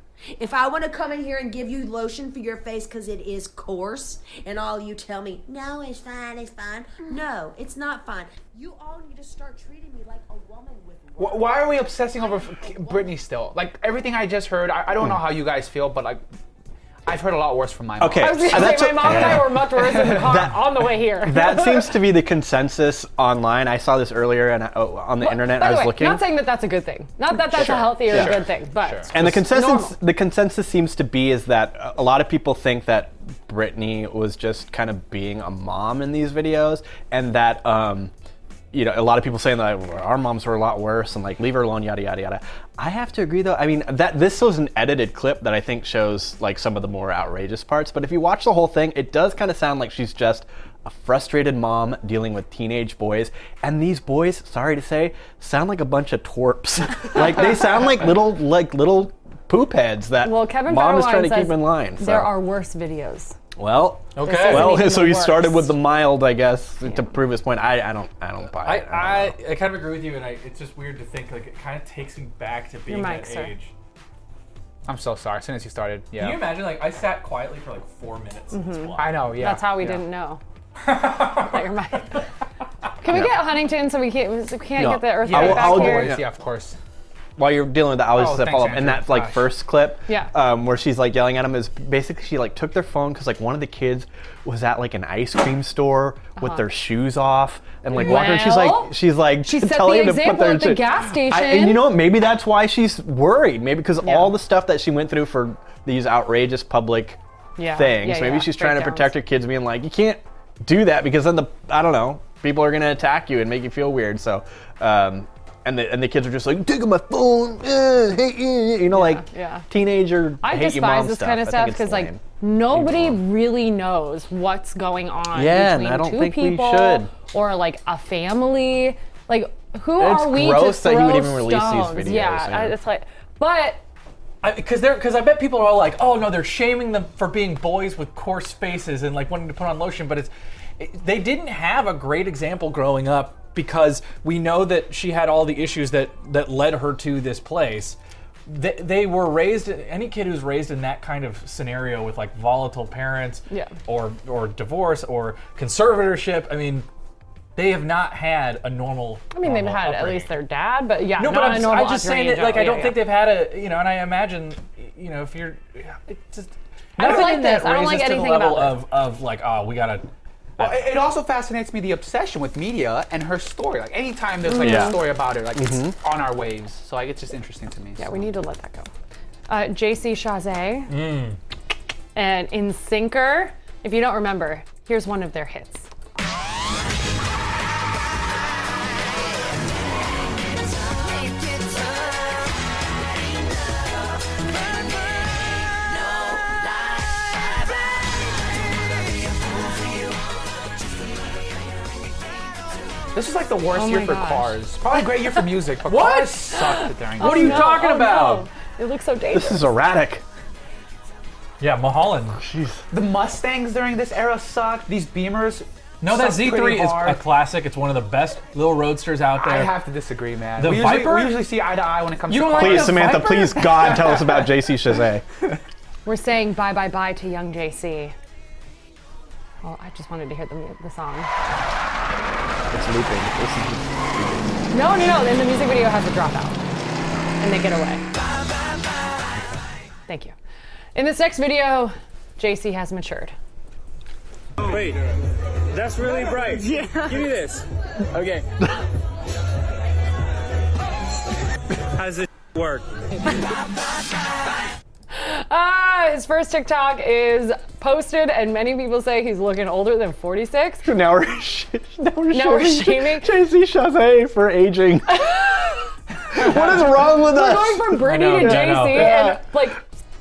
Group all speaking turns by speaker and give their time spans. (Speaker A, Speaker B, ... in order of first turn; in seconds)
Speaker A: 0.4-13.1, 190.8-192.0
Speaker B: 11.2-16.2, 17.1-20.5, 27.5-29.2, 74.9-76.5, 79.0-80.0, 85.2-86.8, 88.1-89.5, 167.0-167.3, 170.6-178.1, 203.1-207.7, 212.9-217.2, 219.4-224.5
Speaker C: 18.0-26.3, 27.5-28.4, 29.1-38.1, 38.7-62.4, 63.6-69.4, 83.0-83.5, 84.8-86.3, 87.4-107.2, 107.7-123.2, 125.3-127.1, 130.0-132.8, 174.6-175.9, 209.3-210.2, 212.4-212.8, 222.5-225.2, 232.7-234.7, 260.8-265.4, 266.3-269.4
Speaker D: 18.2-22.0, 25.2-30.0, 60.2-63.4, 64.2-65.8, 72.9-73.5, 78.5-80.4, 81.3-82.2, 83.0-86.2, 96.4-96.7, 97.9-102.0, 104.0-104.3, 107.6-109.1, 118.9-119.7, 120.4-133.8, 159.3-163.1, 167.0-168.8, 174.4-175.0, 178.0-178.9, 179.5-180.9, 182.2-185.9, 203.7-204.6, 206.6-209.7, 226.1-228.2, 229.6-231.3, 234.7-236.6, 237.4-238.0, 240.1-240.3, 240.9-243.3, 255.1-260.9, 262.3-263.3, 265.2-265.8, 266.4-269.8
Speaker E: 64.2-64.8, 68.6-73.7, 76.2-79.4, 80.8-81.6, 134.4-156.9, 157.6-160.3, 161.2-171.0, 180.9-181.4, 205.8-206.6, 207.2-208.5, 211.6-212.4, 216.0-219.7, 220.6-221.5, 222.3-224.0, 268.0-269.2
Speaker F: 244.6-245.0, 245.7-248.5, 251.9-252.9